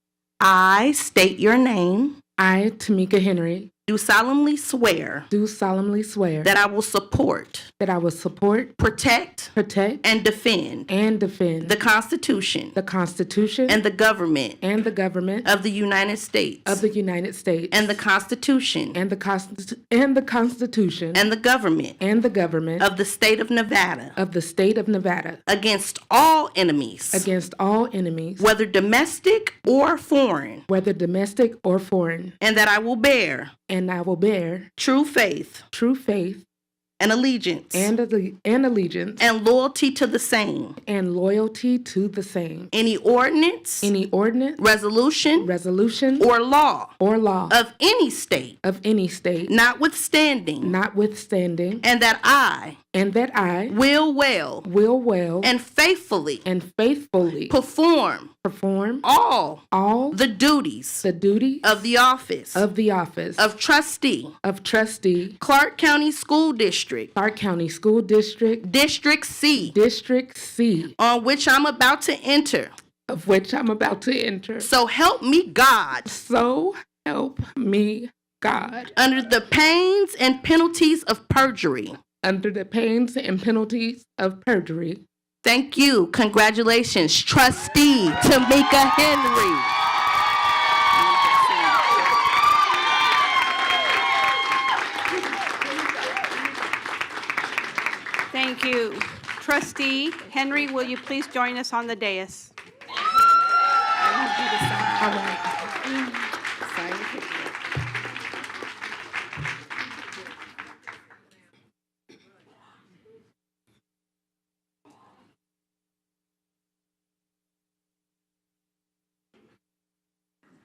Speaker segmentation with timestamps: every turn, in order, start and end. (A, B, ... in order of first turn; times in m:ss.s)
0:00.4-0:02.2 A
0:02.4-0:03.7 B
0:03.9-0:05.3 A
0:05.3-0:06.5 B
0:06.4-0:07.7 A
0:07.8-0:08.8 B
0:08.8-0:10.9 A
0:09.5-0:10.0 B
0:10.9-0:11.8 B
0:11.6-0:12.8 A
0:12.7-0:13.8 B
0:13.7-0:14.6 A
0:14.6-0:15.5 B
0:15.4-0:16.8 A
0:16.6-0:18.0 B
0:17.7-0:19.0 A
0:18.9-0:21.3 B
0:21.1-0:22.0 A
0:22.0-0:22.8 B
0:22.8-0:24.1 A
0:24.2-0:25.4 B
0:25.5-0:27.2 A
0:27.1-0:28.5 B
0:28.4-0:30.6 A
0:30.7-0:32.4 B
0:32.4-0:33.5 A
0:33.7-0:34.7 B
0:34.8-0:35.6 A
0:35.7-0:36.4 B
0:37.0-0:37.9 A
0:37.7-0:39.2 B
0:39.2-0:40.8 A
0:40.8-0:42.7 B
0:42.7-0:43.9 A
0:43.8-0:44.6 B
0:44.6-0:45.5 A
0:45.4-0:46.3 B
0:46.2-0:46.9 A
0:47.0-0:47.6 B
0:47.5-0:48.6 A
0:48.6-0:49.5 B
0:49.5-0:50.8 A
0:50.6-0:51.8 B
0:51.8-0:52.8 A
0:52.9-0:53.8 B
0:53.7-0:54.6 A
0:54.6-0:55.5 B
0:55.4-0:56.4 A
0:56.4-0:57.6 B
0:57.5-0:58.3 A
0:58.4-0:59.0 B
0:59.0-1:01.0 A
0:59.7-1:00.2 B
1:01.0-1:01.9 B
1:01.6-1:02.6 A
1:02.5-1:03.4 B
1:03.4-1:04.3 A
1:04.4-1:05.4 B
1:05.4-1:07.1 A
1:07.1-1:08.6 B
1:08.6-1:09.7 A
1:09.5-1:10.9 B
1:11.0-1:12.7 A
1:13.1-1:14.7 B
1:14.6-1:16.1 A
1:16.0-1:18.9 B
1:18.9-1:22.0 A
1:22.2-1:25.0 B
1:25.4-1:29.7 A
1:38.3-1:42.5 C
1:44.0-1:45.1 C
1:45.0-1:45.7 B